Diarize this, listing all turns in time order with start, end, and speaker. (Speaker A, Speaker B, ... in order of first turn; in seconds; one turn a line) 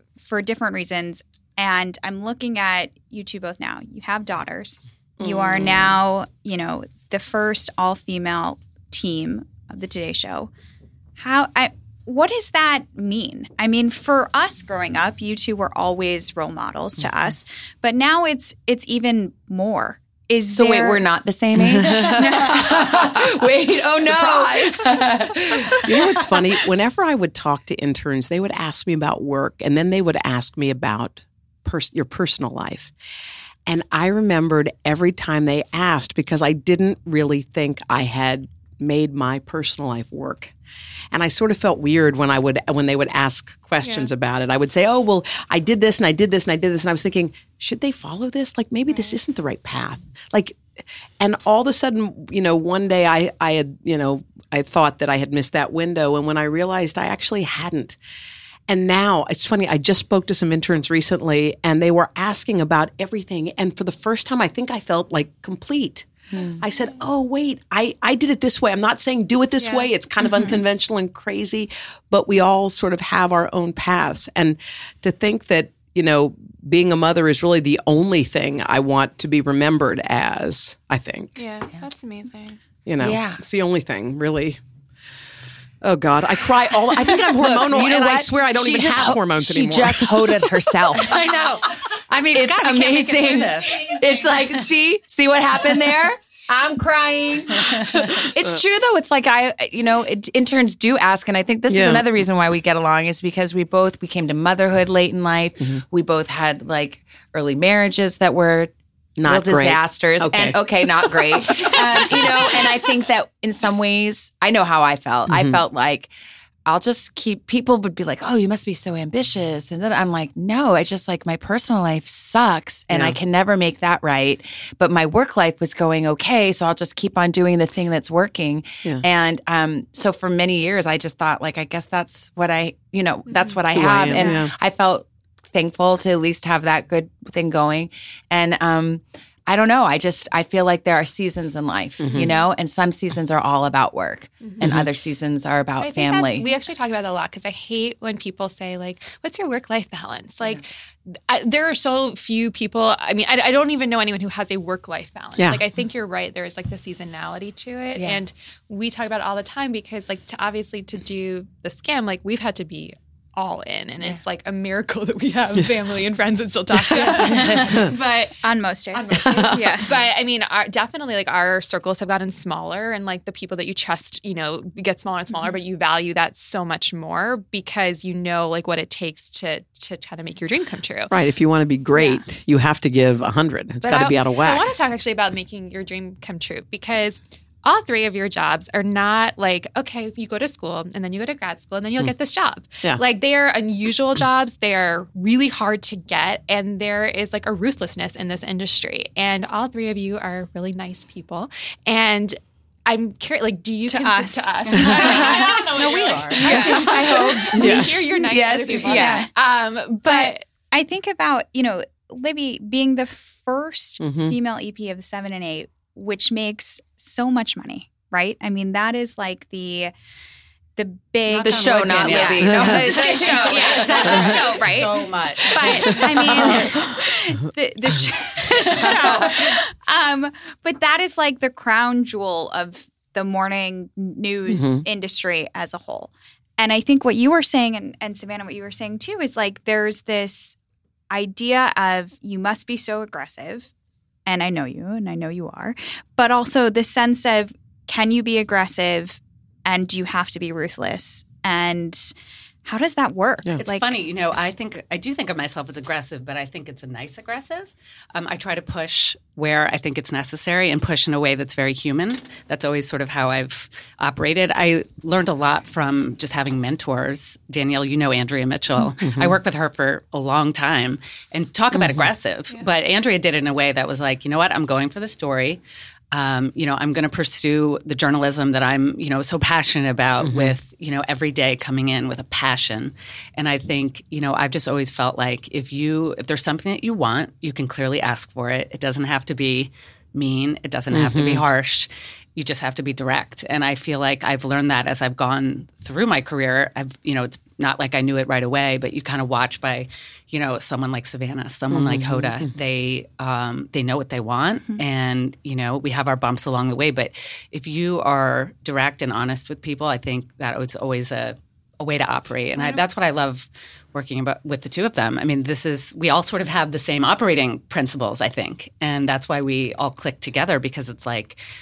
Speaker A: 0.2-10.5
Speaker B: 5.2-5.9
Speaker A: 11.2-21.0
Speaker C: 20.5-26.4
Speaker B: 21.8-23.2
Speaker B: 24.0-32.9
Speaker B: 33.7-40.5
Speaker B: 41.1-50.6
Speaker D: 43.8-44.1
Speaker B: 51.2-58.0
Speaker B: 58.7-81.4
Speaker C: 66.3-66.6
Speaker D: 69.6-69.9
Speaker A: 70.2-70.6
Speaker D: 81.4-82.6
Speaker B: 82.9-84.6
Speaker C: 83.0-83.4
Speaker B: 85.8-90.8
Speaker C: 86.9-91.4
Speaker E: 91.0-94.2
Speaker C: 92.3-108.7
Speaker B: 101.7-102.1
Speaker B: 109.2-112.7
Speaker C: 109.2-116.1
Speaker B: 115.3-115.6
Speaker C: 116.7-146.5
Speaker B: 122.9-123.2
Speaker D: 133.3-133.6
Speaker B: 133.7-134.5
Speaker A: 134.0-134.4
Speaker B: 142.0-142.3
Speaker D: 142.1-142.5
Speaker D: 144.4-144.7
Speaker B: 144.6-144.9
Speaker D: 145.8-168.4
Speaker B: 155.4-155.6
Speaker C: 157.9-158.2
Speaker A: 167.2-167.9
Speaker A: 168.4-169.9
Speaker D: 168.9-181.1
Speaker C: 169.2-169.5
Speaker B: 181.1-184.7
Speaker D: 183.8-210.5
Speaker A: 203.9-205.7
Speaker E: 204.7-206.8
Speaker A: 206.4-207.4
Speaker C: 206.5-209.3
Speaker B: 207.5-208.1
Speaker A: 208.7-209.3
Speaker A: 210.0-219.9
Speaker B: 214.0-214.4
Speaker A: 220.8-240.6
Speaker E: 221.3-226.6
Speaker C: 221.4-224.6
Speaker B: 222.5-222.8
Speaker E: 228.7-229.0
Speaker B: 234.5-234.8
Speaker A: 241.1-243.7
Speaker A: 244.3-252.1
Speaker A: 252.7-253.9
Speaker E: 253.6-275.6
Speaker B: 269.0-269.4
Speaker B: 271.7-272.1
Speaker E: 276.1-321.4
Speaker B: 280.2-280.6
Speaker B: 290.9-291.4
Speaker B: 301.7-302.5